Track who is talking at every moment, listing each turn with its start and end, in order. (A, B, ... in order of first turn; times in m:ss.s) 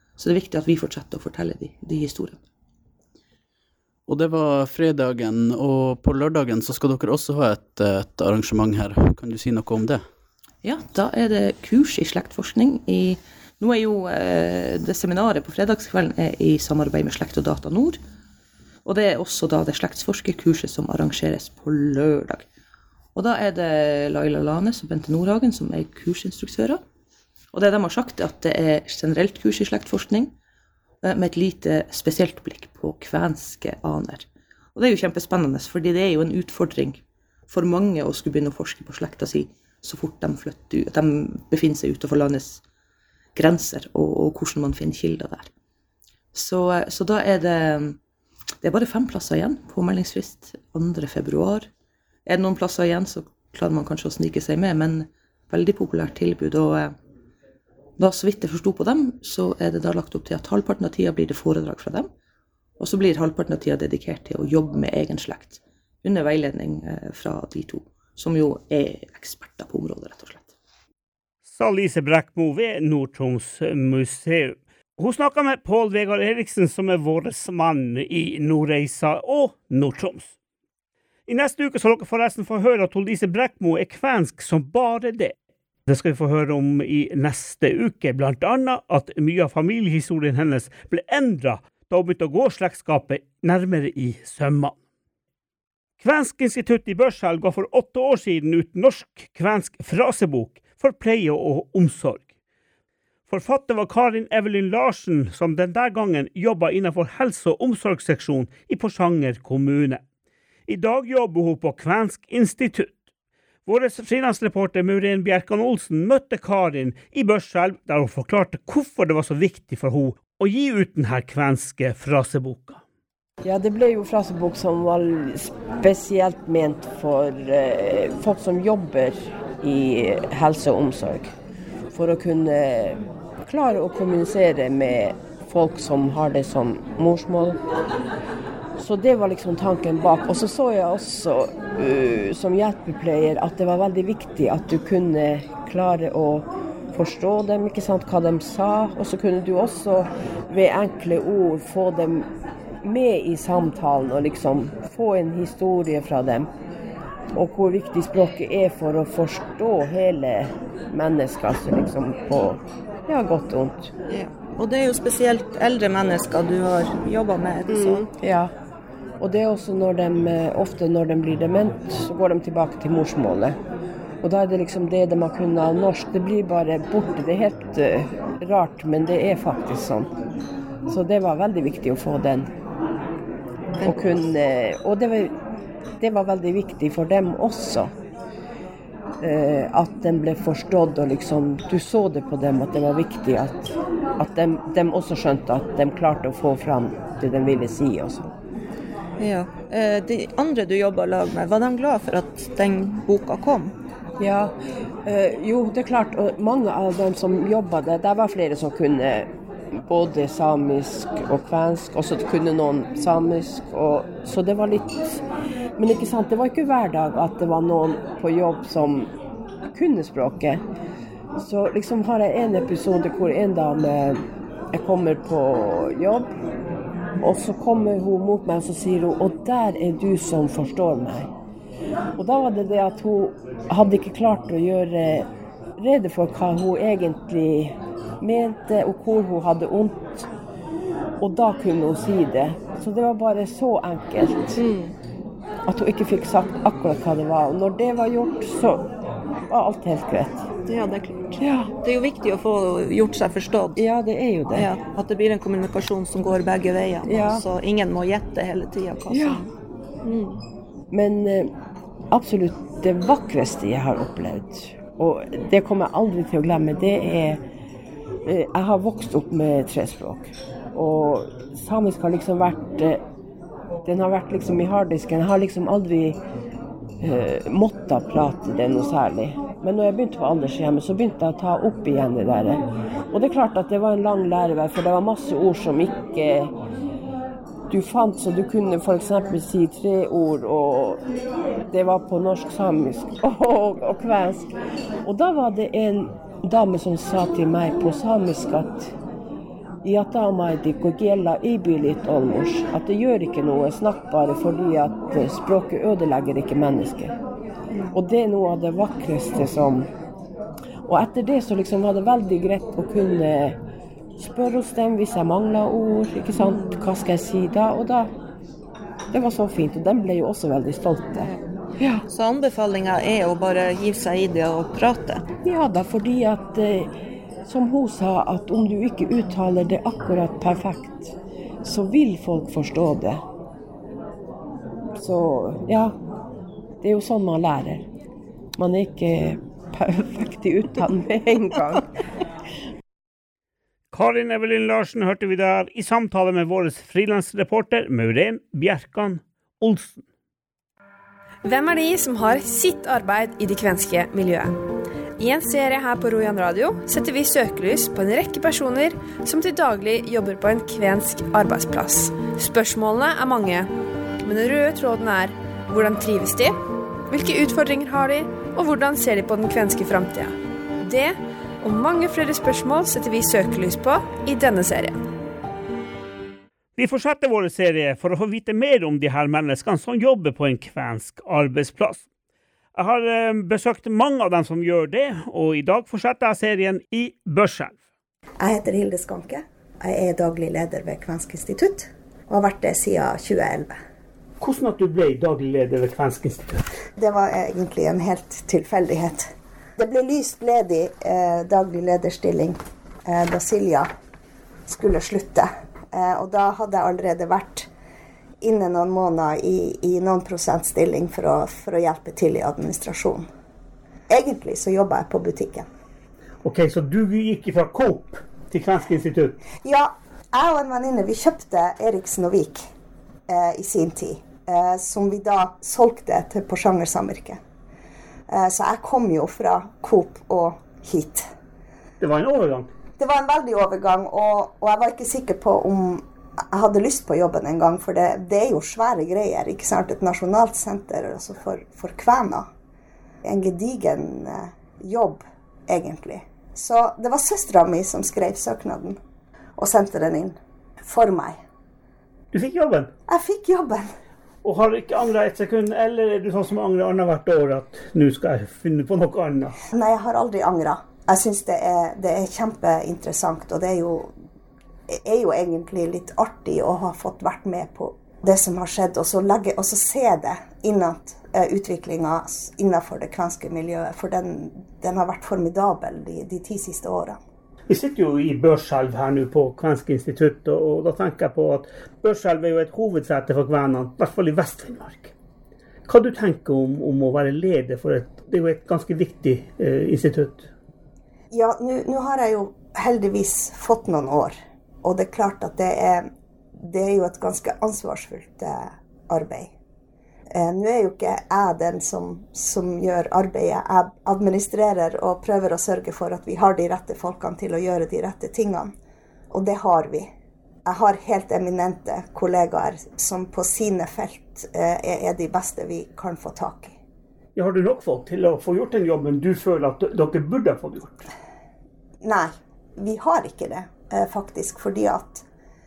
0:00.2-0:02.4 A
0:04.1-0:10.1 B
0:10.6-0:18.0 A
0:18.8-0:22.5 A
0:23.2-0:26.8 A
0:27.5-0:30.3 A
0:31.0-0:42.6 A
0:43.4-0:45.5 A
0:46.3-0:48.0 A
0:48.6-0:51.7 A
0:52.3-0:57.0 A
0:58.0-1:02.1 A
1:02.8-1:10.5 A
1:11.5-1:20.3 C
1:21.3-1:25.4 C
1:25.9-1:34.8 C
1:36.0-1:42.3 C
1:43.3-1:50.0 C
1:50.7-1:53.0 C
1:53.7-2:02.8 C
2:03.4-2:11.3 D
2:11.9-2:17.6 D
2:18.8-2:32.3 D
2:32.8-2:36.5 D
2:37.4-2:43.9 D
2:44.1-2:48.1 E
2:47.7-2:48.5 D
2:49.2-2:53.6 D
2:54.2-3:00.1 D
3:00.9-3:02.5 D
3:03.8-3:04.1 E
3:03.8-3:05.3 D
3:06.0-3:07.9 D
3:09.2-3:13.7 D
3:14.2-3:18.3 D
3:19.2-3:23.7 E
3:24.2-3:24.5 D
3:25.1-3:35.2 D
3:35.8-3:39.1 D
3:39.7-3:40.6 D
3:41.4-3:46.3 D
3:47.2-3:51.3 D
3:52.2-4:00.3 D
4:01.2-4:04.6 D
4:04.6-4:04.9 E
4:05.7-4:08.8 D
4:09.5-4:10.4 D
4:10.7-4:13.8 E
4:11.4-4:11.7 D
4:13.8-4:14.7 D
4:14.5-4:19.5 E
4:17.1-4:17.4 D
4:19.1-4:19.4 D
4:20.0-4:20.4 E
4:20.9-4:21.5 D
4:22.1-4:27.4 D
4:28.3-4:33.0 D
4:33.8-4:36.2 D
4:37.0-4:42.6 D
4:43.1-4:46.5 D
4:47.7-4:51.0 D
4:51.7-4:54.5 D
4:55.0-4:58.9 D
4:59.8-5:07.1 D
5:07.9-5:09.9 D
5:10.9-5:13.6 D
5:14.2-5:18.1 D
5:16.4-5:16.8 E
5:19.1-5:22.0 D
5:22.1-5:25.2 E
5:25.4-5:26.9 D
5:27.5-5:31.1 D
5:31.6-5:33.2 D
5:35.0-5:36.0 D
5:36.8-5:37.8 D
5:38.6-5:41.8 D
5:43.9-5:50.0 C
5:51.4-5:54.6 F
5:55.2-6:03.7 F
6:04.2-6:06.6 F
6:07.1-6:15.0 F
6:16.8-6:22.0 C
6:22.8-6:27.8 C
6:28.4-6:33.7 G
6:34.4-6:36.6 C
6:37.0-6:43.9 G
6:44.7-6:47.7 G
6:48.4-6:53.3 G
6:54.1-6:55.7 G
6:56.4-6:59.4 C
6:59.6-7:02.7 G
7:03.3-7:07.4 G
7:08.3-7:11.3 G
7:12.0-7:12.7 C
7:13.0-7:22.5 G
7:23.2-7:29.0 G
7:29.6-7:31.4 G
7:32.3-7:32.9 C
7:33.1-7:33.9 G
7:34.4-7:39.6 C
7:39.7-7:44.1 G
7:44.9-7:57.2 G
7:57.7-8:05.1 C
8:05.9-8:10.5 C
8:11.3-8:19.5 G
8:20.3-8:28.7 G
8:29.3-8:30.1 G
8:30.6-8:36.8 G
8:37.4-8:41.1 C
8:42.0-8:45.3 G